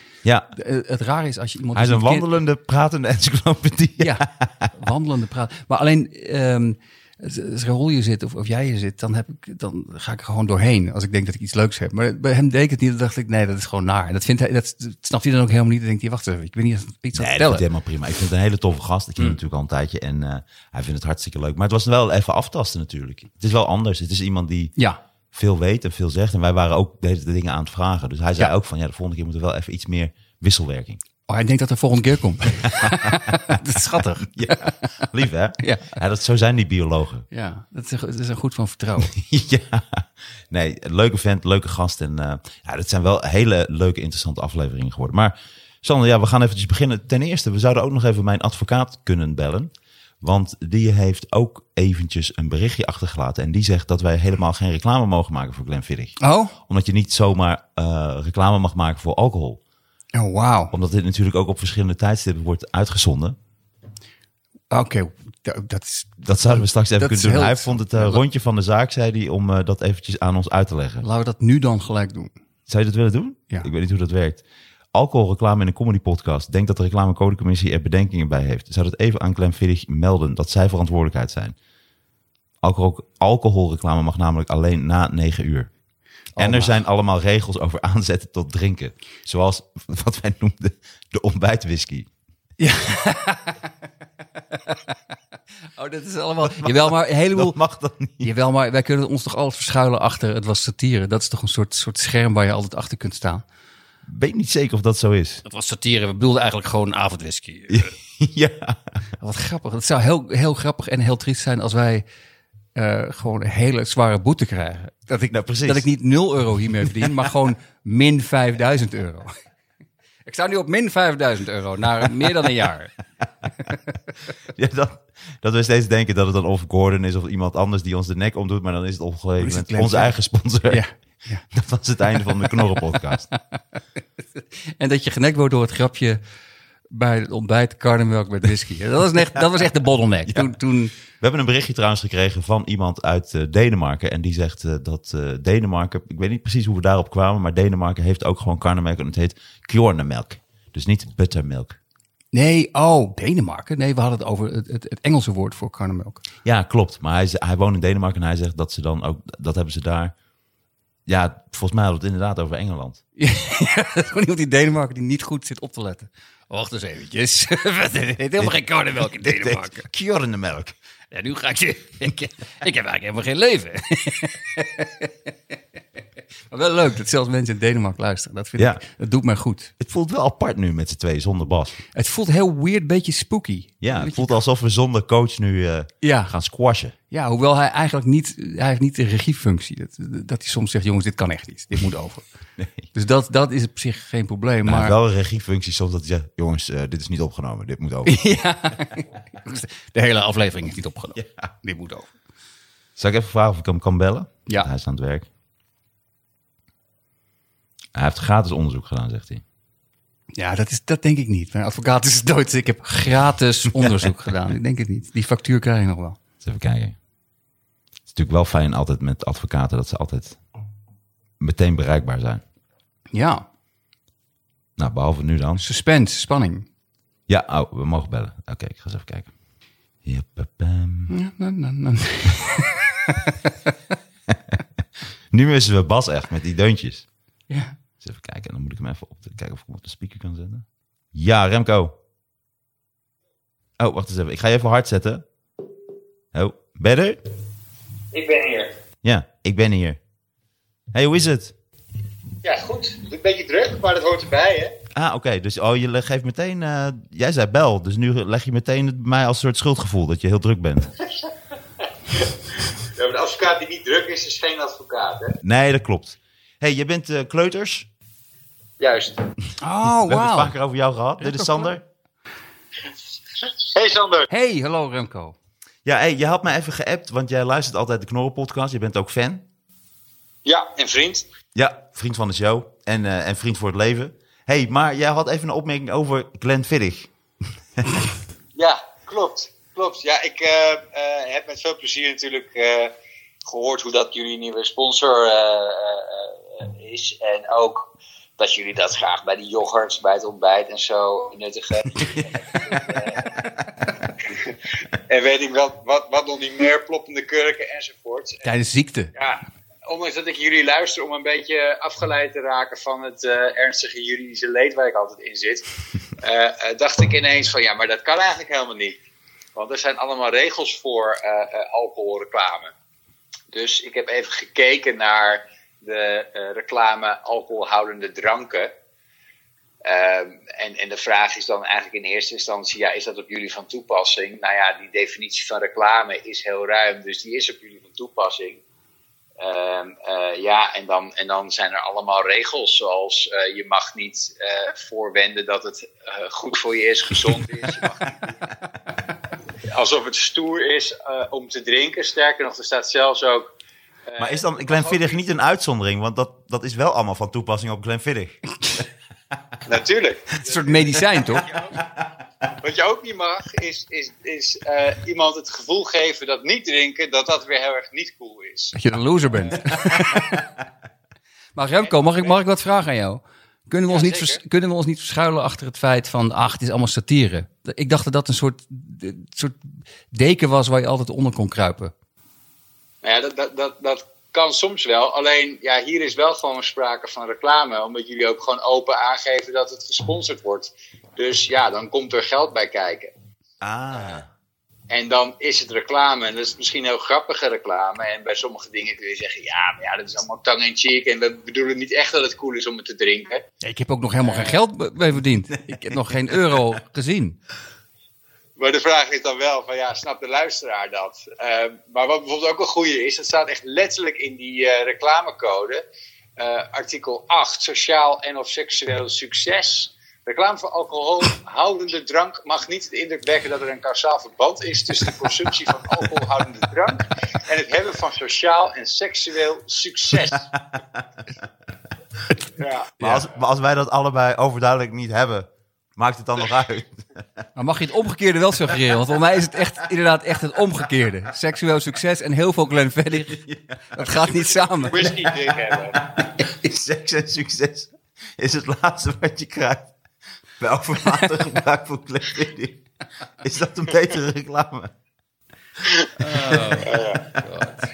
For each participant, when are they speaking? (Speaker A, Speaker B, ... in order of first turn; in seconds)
Speaker A: 0.5-2.3, 4.0-17.7, 31.3-35.0, 35.6-36.0, 37.3-39.2, 56.2-56.5, 60.1-60.7, 64.7-68.2, 71.0-72.3, 86.3-86.7, 92.6-93.7, 95.8-97.6, 98.2-103.4, 105.4-107.9, 109.2-112.0, 112.8-119.4, 120.2-122.9, 129.4-130.1, 130.7-131.4, 133.3-133.6, 134.2-136.2, 136.9-141.0, 152.3-156.2, 163.2-169.9, 171.1-175.1, 176.5-179.7, 181.9-184.4, 186.0-186.3, 187.1-192.2, 192.9-194.9, 198.1-202.1, 210.3-216.2, 223.1-223.4, 225.6-226.7, 231.1-233.5, 237.5-237.8, 269.6-270.6, 271.2-271.7, 274.3-275.4, 308.4-309.1, 360.4-361.5, 368.8-370.4, 371.6-379.6, 380.1-381.9, 403.6-407.4, 437.6-445.1, 456.2-457.9
Speaker B: 1.8-4.7, 17.2-24.7, 25.3-31.0, 32.8-33.3, 34.3-37.2, 39.1-59.6, 60.7-63.4, 66.2-71.0, 72.7-74.4, 74.9-81.5, 82.6-85.7, 86.4-92.1, 96.4-98.3, 104.1-105.4, 107.7-108.8, 115.3-115.9, 124.5-130.8, 131.5-133.3, 140.3-140.6, 141.1-151.8, 156.4-160.1, 161.1-163.0, 168.4-170.8, 179.8-181.8, 183.8-186.9, 192.6-192.8, 194.7-198.2, 201.2-201.5, 203.0-205.3, 207.9-209.4, 216.4-216.9, 218.1-220.4, 221.4-222.4, 224.8-225.6, 227.3-229.3, 230.1-231.1, 234.3-234.6, 235.3-237.1, 238.0-241.9, 243.8-245.2, 246.3-247.2, 249.0-250.0, 250.9-251.6, 254.9-260.9, 265.4-267.9, 269.9-271.8, 275.9-279.4, 281.6-287.1, 354.2-358.4, 393.6-394.3, 430.7-431.0, 433.0-437.1, 443.3-449.9, 450.6-452.8, 453.4-454.9, 456.3-456.8
Speaker C: 248.1-248.7, 252.4-254.8, 262.1-265.4, 268.8-269.2, 273.4-274.3, 280.4-281.2, 288.6-292.9, 293.4-303.4, 304.2-308.4, 309.2-315.7, 316.2-319.0, 319.6-322.7, 323.5-328.7, 329.8-338.6, 339.4-348.5, 349.7-353.5, 354.1-355.2, 359.6-360.8, 361.4-361.7, 362.6-368.8, 369.4-369.7, 371.9-372.3, 373.9-374.4, 383.0-393.1, 394.9-403.4, 404.2-404.6, 408.6-415.8, 416.4-430.5, 432.6-432.9, 444.9-446.0, 456.8-457.3